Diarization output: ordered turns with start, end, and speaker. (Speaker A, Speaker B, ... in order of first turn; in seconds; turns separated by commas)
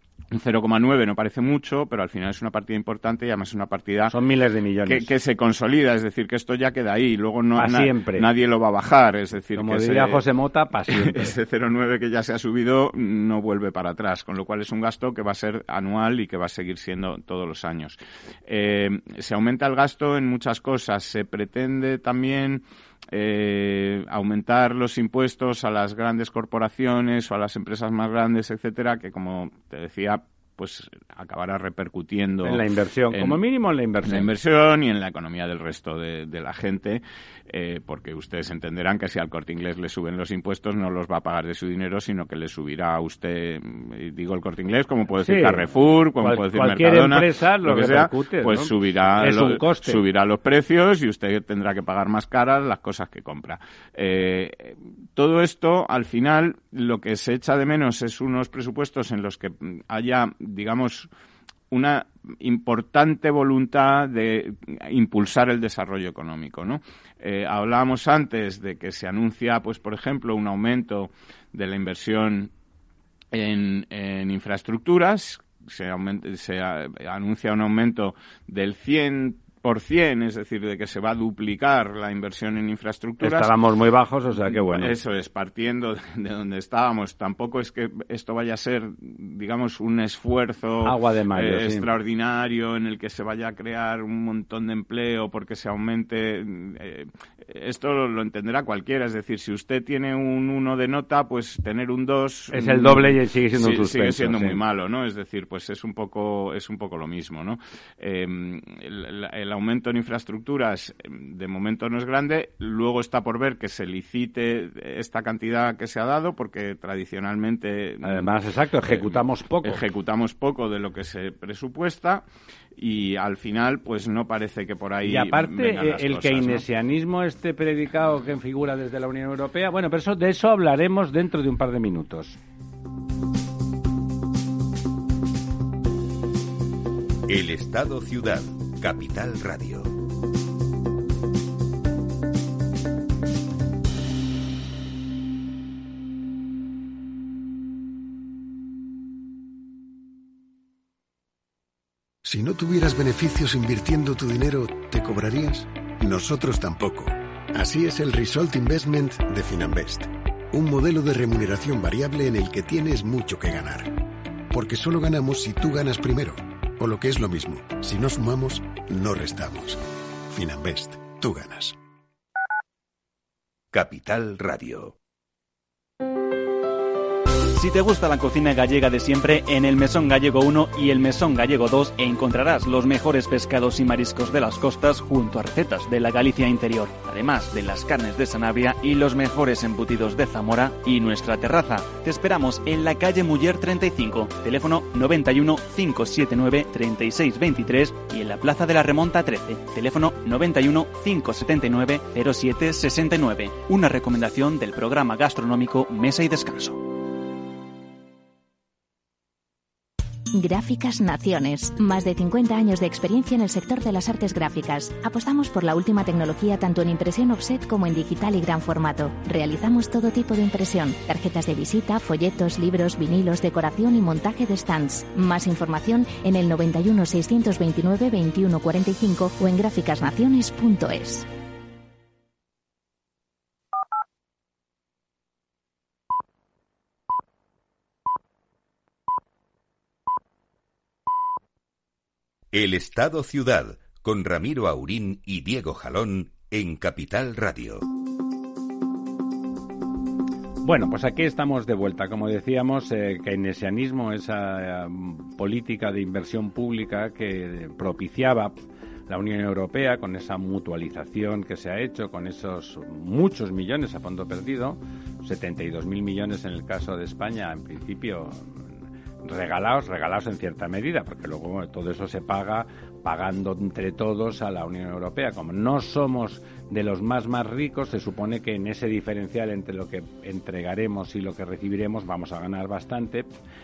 Speaker A: 0.3-4.1, Speaker B: 4.1-5.1, Speaker A: 4.9-10.2, Speaker B: 7.6-8.3, Speaker B: 9.6-11.4, Speaker A: 10.9-33.4, Speaker B: 32.4-34.3, Speaker A: 34.0-61.1, Speaker B: 45.2-45.7, Speaker B: 46.2-50.0, Speaker A: 61.7-72.5, Speaker A: 73.3-83.5, Speaker B: 83.2-84.9, Speaker A: 84.5-118.3, Speaker B: 90.8-91.9, Speaker B: 102.5-104.6, Speaker B: 118.0-119.8, Speaker A: 118.8-122.2, Speaker A: 122.8-126.7, Speaker B: 125.0-132.4, Speaker C: 137.3-139.9, Speaker D: 152.2-163.9, Speaker D: 164.5-171.8, Speaker C: 173.7-175.0, Speaker E: 177.5-206.8, Speaker F: 210.3-231.3, Speaker C: 242.5-247.8, Speaker B: 250.6-258.6, Speaker B: 259.1-268.7, Speaker B: 269.2-283.3